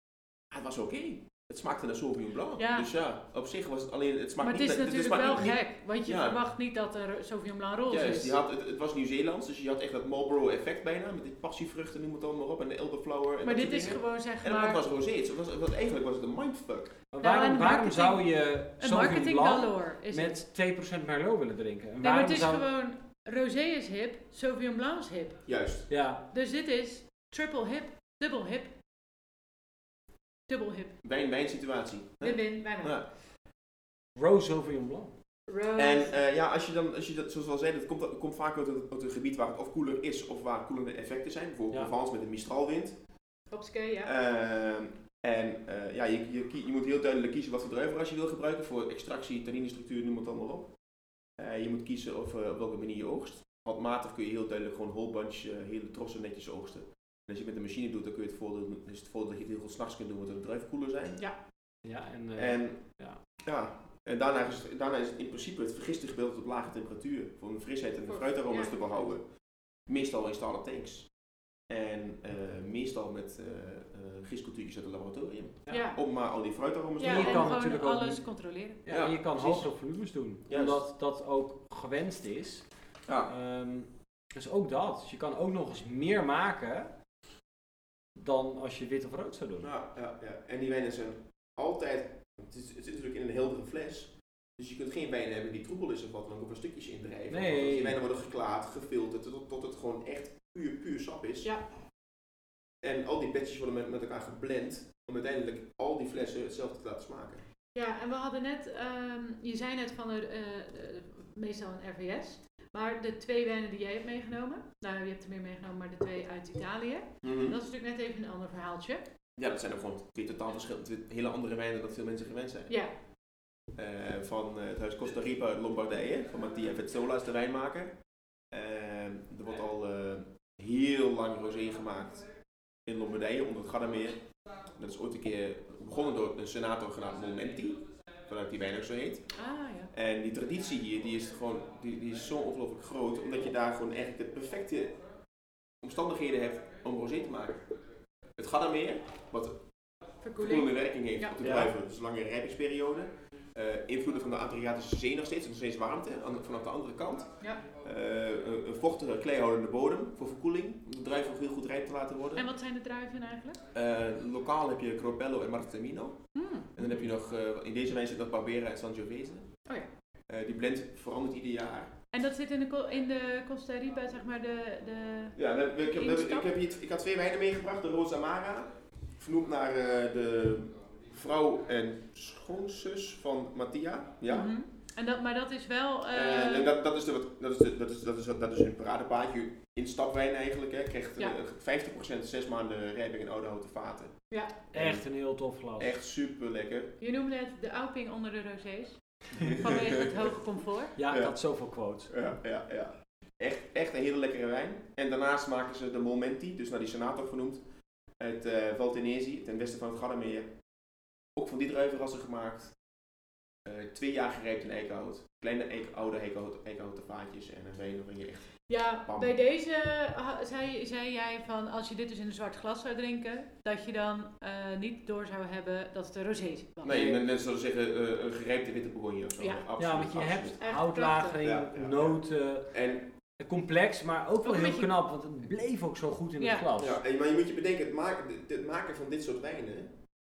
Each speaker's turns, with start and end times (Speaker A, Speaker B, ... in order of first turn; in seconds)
Speaker A: 0.5-6.4, 7.9-16.9, 25.4-25.9, 31.0-33.1, 35.7-43.0, 44.0-50.7, 51.4-61.2, 62.4-62.8, 63.4-69.2, 69.9-71.1, 71.7-77.5, 78.9-79.7, 80.5-80.8, 89.6-101.5, 102.8-107.4, 117.2-117.6, 119.4-122.7, 123.8-128.0, 128.5-132.3, 132.8-134.2, 134.7-139.3, 139.9-145.0, 145.8-147.6, 148.3-149.6, 150.4-162.5, 163.7-166.2, 166.7-169.5, 170.3-171.9, 175.3-184.5, 186.1-194.1, 194.7-195.0, 195.8-196.9, 199.3-200.1, 201.1-201.3, 202.1-207.6, 208.2-210.5, 211.3-212.8, 213.6-219.3, 226.8-230.6, 231.4-232.2, 232.7-233.1, 236.8-239.9
Speaker B: 2.6-2.9, 4.4-8.3, 13.4-14.8, 17.2-20.4, 22.0-25.4, 26.3-28.7, 30.5-30.9, 32.2-33.0, 35.5-36.1, 43.5-44.1, 68.1-69.1, 75.7-76.0, 77.0-78.8, 107.7-119.0, 139.3-139.9, 150.2-151.4, 162.3-163.6, 166.3-166.8, 172.1-176.5, 184.3-186.7, 197.0-200.9, 218.7-227.2, 229.4-229.6, 230.6-231.4, 234.4-234.9, 236.4-236.7
Speaker C: 17.1-22.6, 25.9-26.2, 34.1-35.1, 61.8-63.2, 77.0-78.2, 78.8-82.6, 83.2-86.9, 88.2-89.7, 97.3-98.0, 151.4-151.7, 194.7-195.9, 200.9-202.1, 229.8-232.8, 233.4-237.0